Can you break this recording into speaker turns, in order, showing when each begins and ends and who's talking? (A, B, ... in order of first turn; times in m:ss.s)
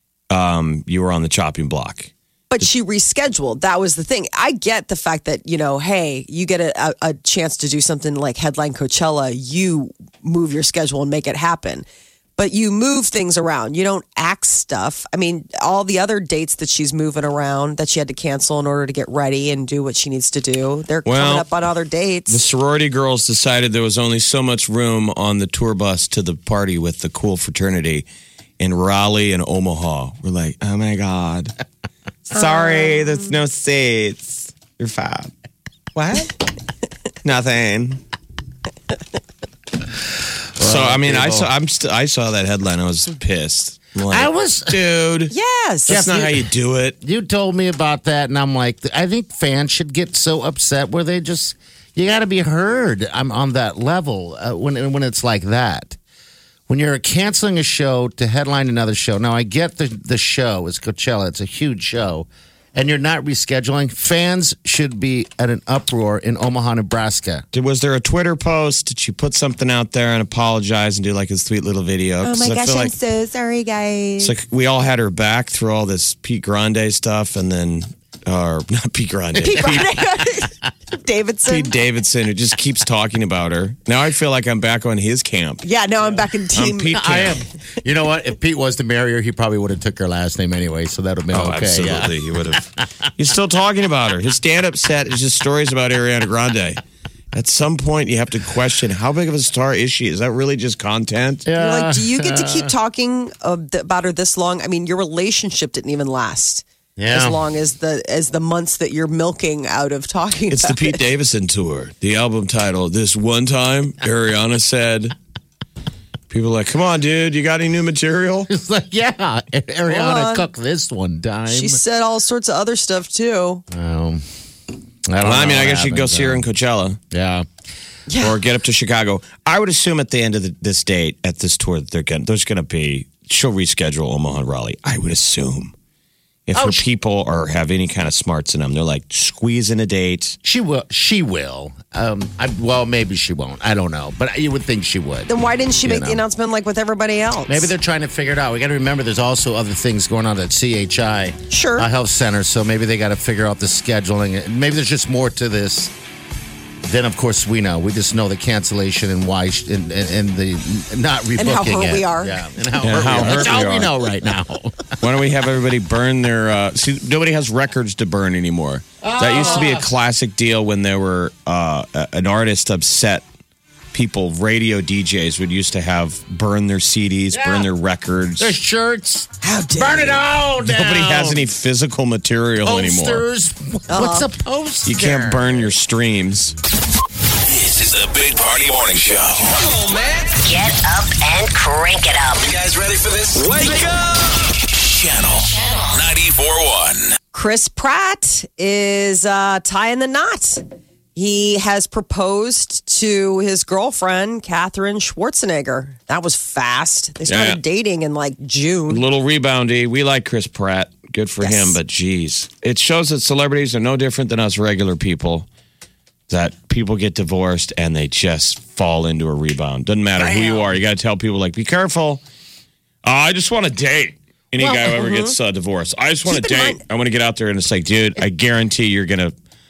0:00.3-0:02.6 A
0:02.5-0:11.8 B
0:12.4-0:22.4 B
0:21.0-0:21.5 A
0:22.3-0:28.0 A
0:28.6-0:31.5 A
0:32.3-0:35.3 A
0:32.3-0:33.3 B
0:35.9-0:36.3 A
0:37.2-0:38.0 A
0:40.6-0:41.5 C
0:40.6-0:45.3 A
0:44.1-0:44.8 C
0:45.3-0:46.2 B
0:45.9-0:47.0 A
0:45.9-0:46.3 C
0:47.0-0:56.0 C
0:56.7-1:07.4 C
1:07.5-1:12.9 A
1:12.2-1:14.3 B
1:14.2-1:20.0 A
1:19.4-1:21.7 B
1:21.5-1:25.6 A
1:25.6-1:27.0 B
1:26.5-1:27.4 A
1:26.9-1:32.6 C
1:31.3-1:36.8 A
1:37.3-1:41.4 A
1:41.4-1:42.7 C
1:41.6-1:51.0 B
1:47.0-1:47.4 C
1:50.5-1:55.1 A
1:56.3-1:58.5 A
1:58.5-2:01.8 C
1:59.9-2:00.4 B
2:01.5-2:03.6 B
2:03.7-2:04.2 C
2:05.1-2:06.5 C
2:05.2-2:07.0 A
2:07.1-2:07.5 C
2:08.1-2:08.4 B
2:08.2-2:15.7 A
2:16.5-2:20.4 A
2:16.5-2:16.8 C
2:20.4-2:25.3 C
2:25.3-2:27.7 B
2:25.8-2:26.2 C
2:27.5-2:35.9 C
2:31.5-2:31.9 B
2:36.8-2:45.0 C
2:41.4-2:42.5 B
2:42.8-2:43.9 A
2:45.0-2:53.2 A
2:49.0-2:49.8 C
2:53.9-2:58.5 A
2:57.3-2:57.7 C
2:58.4-3:01.4 C
2:59.4-3:00.2 B
3:00.6-3:03.2 A
3:02.6-3:05.7 C
3:03.9-3:04.3 B
3:04.8-3:06.5 A
3:07.4-3:10.2 D
3:10.4-3:12.5 E
3:12.4-3:17.2 D
3:15.5-3:16.0 E
3:17.3-3:20.6 B
3:21.1-3:29.0 B
3:27.3-3:27.6 A
3:28.9-3:35.5 A
3:31.4-3:31.8 B
3:36.3-3:42.2 A
3:40.2-3:40.6 B
3:43.0-3:49.3 A
3:44.6-3:44.9 C
3:44.7-3:45.3 B
3:46.3-3:46.8 B